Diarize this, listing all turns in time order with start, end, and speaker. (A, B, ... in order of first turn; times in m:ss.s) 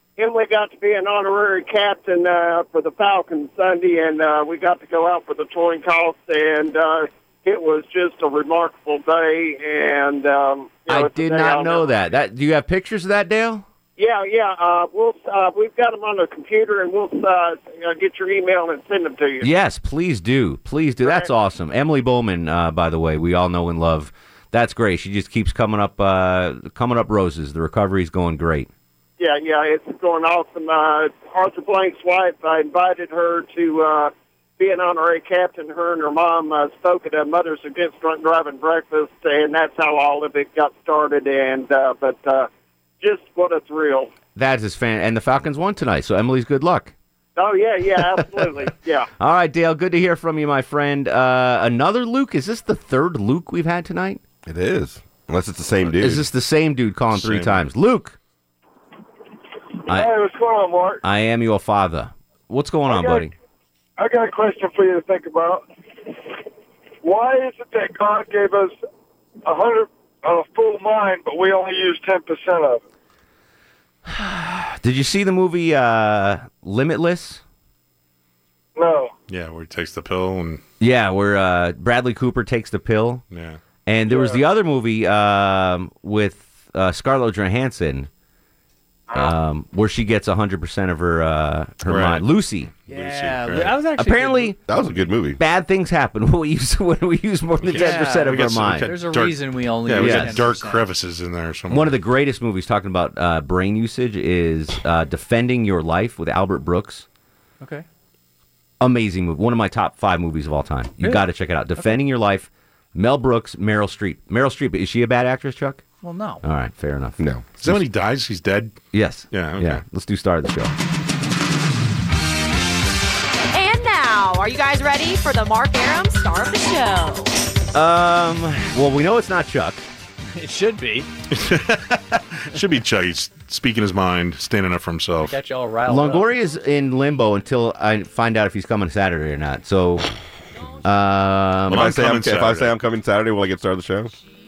0:00.2-0:12.0 A
0:10.9-0:13.6 B
0:14.0-0:19.4 A
0:19.4-0:28.7 B
0:29.2-0:42.5 A
0:43.0-0:44.1 A
0:44.4-0:46.9 B
0:47.4-0:49.1 A
0:49.2-0:54.2 B
0:54.4-0:56.2 C
0:56.0-0:58.2 B
0:57.1-0:57.6 D
0:59.9-1:00.1 B
0:59.9-1:01.0 E
1:01.0-1:03.3 B
1:02.9-1:03.3 E
1:04.0-1:05.6 E
1:07.0-1:08.8 E
1:09.4-1:12.8 E
1:14.1-1:17.4 B
1:18.8-1:19.1 E
1:19.3-1:20.6 D
1:20.8-1:23.2 B
1:23.3-1:23.6 D
1:23.8-1:28.1 B
1:24.1-1:24.3 E
1:29.1-1:32.7 B
1:31.8-1:32.2 D
1:32.9-1:33.8 D
1:32.9-1:34.6 F
1:33.9-1:34.8 B
1:34.7-1:35.4 C
1:35.3-1:38.9 B
1:37.6-1:42.0 D
1:37.7-1:40.8 F
1:39.9-1:40.4 B
1:41.7-1:47.0 B
1:48.8-1:55.8 B
1:51.0-1:52.0 F
1:56.0-1:56.4 F
1:56.4-1:57.2 B
1:57.2-1:57.7 C
1:57.6-1:58.8 D
1:58.9-2:00.7 B
1:59.3-1:59.8 D
2:03.5-2:07.3 G
2:07.7-2:09.9 B
2:10.3-2:11.1 F
2:11.3-2:15.4 D
2:15.2-2:16.3 F
2:15.9-2:20.1 B
2:20.8-2:21.9 B
2:21.7-2:22.8 D
2:21.7-2:24.1 C